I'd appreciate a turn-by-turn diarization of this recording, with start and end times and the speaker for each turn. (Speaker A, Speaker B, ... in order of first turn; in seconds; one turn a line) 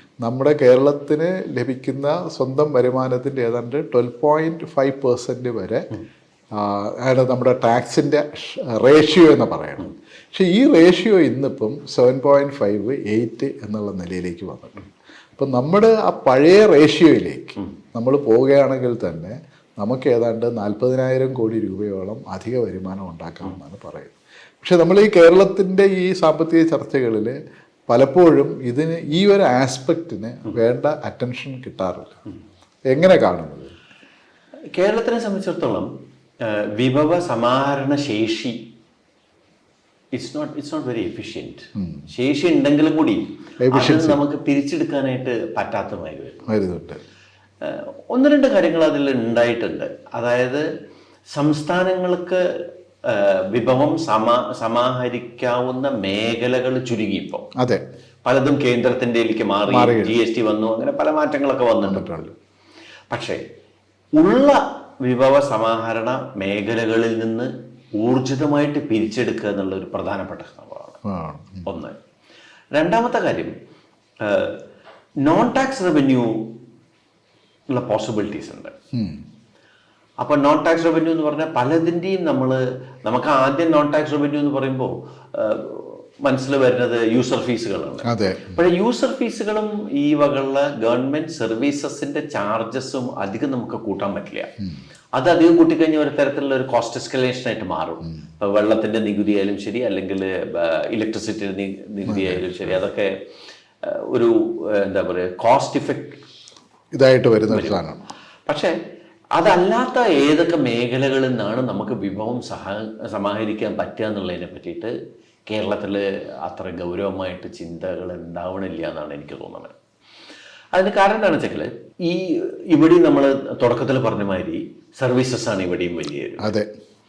Speaker A: 0.2-5.9
Speaker A: 6.5-27.4
Speaker A: 27.9-32.2
Speaker A: 32.9-33.7
Speaker B: 34.7-35.9
Speaker B: 36.4-38.6
Speaker B: 40.1-46.5
Speaker A: 41.8-42.0
Speaker A: 43.6-44.2
Speaker A: 46.5-47.0
Speaker B: 47.6-50.6
Speaker B: 51.3-52.4
Speaker B: 53.0-57.5
Speaker B: 58.2-62.1
Speaker A: 59.7-60.2
Speaker A: 61.9-62.4
Speaker B: 63.1-63.4
Speaker B: 64.2-71.0
Speaker A: 71.1-71.7
Speaker B: 71.7-72.0
Speaker B: 72.8-73.5
Speaker B: 74.2-74.6
Speaker B: 75.2-76.5
Speaker B: 77.7-78.7
Speaker A: 78.9-79.2
Speaker B: 80.2-94.5
Speaker A: 88.0-88.6
Speaker B: 95.2-103.1
Speaker A: 102.1-102.8
Speaker B: 103.8-106.2
Speaker A: 106.9-108.0
Speaker B: 107.5-107.8
Speaker B: 108.5-108.7
Speaker B: 109.4-114.9
Speaker B: 115.5-119.7
Speaker B: 120.8-126.5
Speaker A: 126.4-126.7